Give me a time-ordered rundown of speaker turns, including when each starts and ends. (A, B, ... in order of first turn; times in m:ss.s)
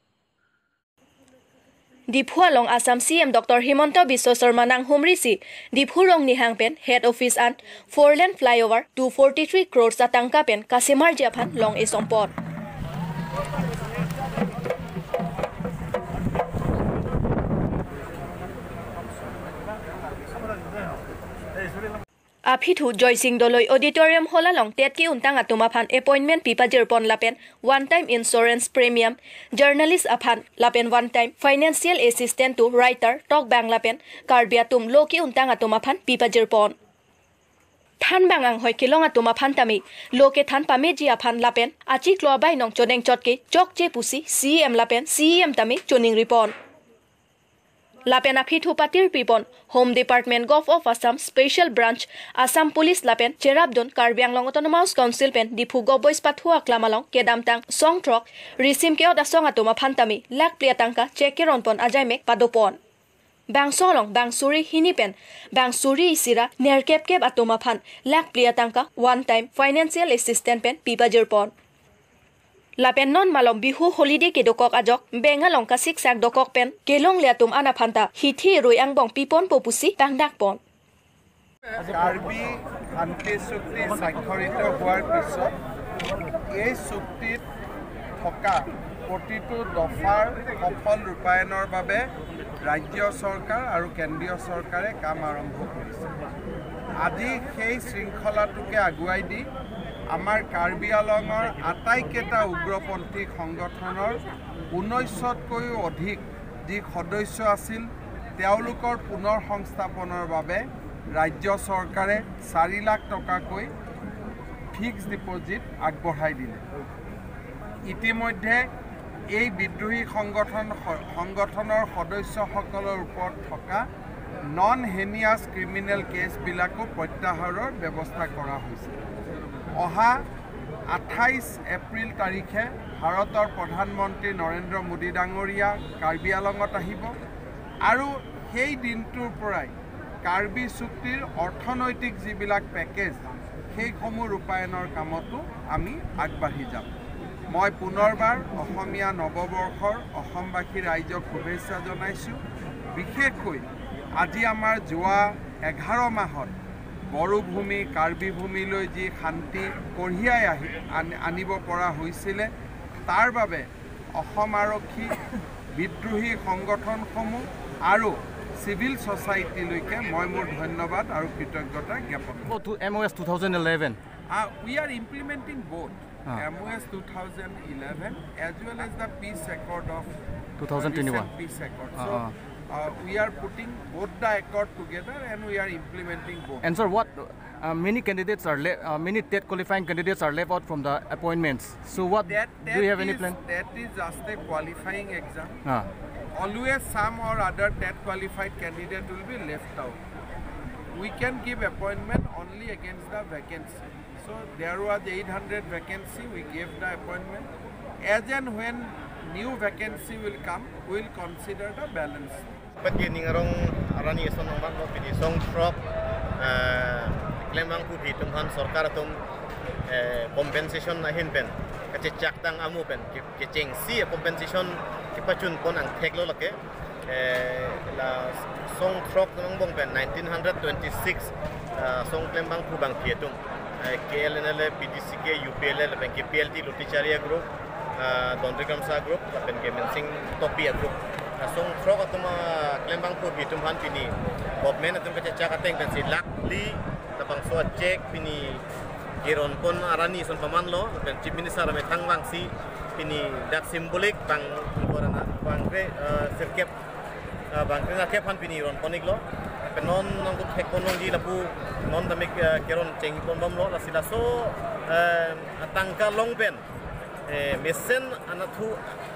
0:02.1-0:12.3 A
0:22.4-0:36.7 A
0:38.0-0:46.5 A
0:48.0-1:02.8 A
1:03.5-1:11.5 A
1:12.8-1:20.6 A
1:22.0-1:25.5 B
1:26.6-1:27.4 B
1:28.2-1:32.0 B
1:32.6-1:36.1 B
1:37.0-1:39.5 B
1:40.1-1:44.2 B
1:44.7-1:53.7 B
1:54.7-1:56.6 B
1:57.9-1:58.6 B
1:59.4-2:03.8 B
2:04.6-2:09.0 B
2:09.8-2:10.2 B
2:10.9-2:17.1 B
2:17.9-2:19.7 B
2:20.2-2:23.2 B
2:23.7-2:26.9 B
2:27.5-2:32.4 B
2:33.0-2:33.7 B
2:34.2-2:36.5 B
2:37.1-2:42.5 B
2:43.1-2:43.7 B
2:44.2-2:45.1 B
2:45.8-2:52.4 B
2:52.4-2:54.0 C
2:54.3-3:00.1 B
3:00.6-3:01.3 C
3:00.8-3:06.6 B
3:01.9-3:02.3 C
3:06.6-3:13.4 C
3:12.3-3:15.6 B
3:15.6-3:15.9 C
3:16.4-3:20.0 B
3:21.0-3:27.5 B
3:28.1-3:32.4 B
3:32.8-3:35.8 D
3:36.4-3:39.2 D
3:39.9-4:08.6 D
4:09.2-4:16.7 D
4:17.5-4:26.6 D
4:27.3-4:28.8 D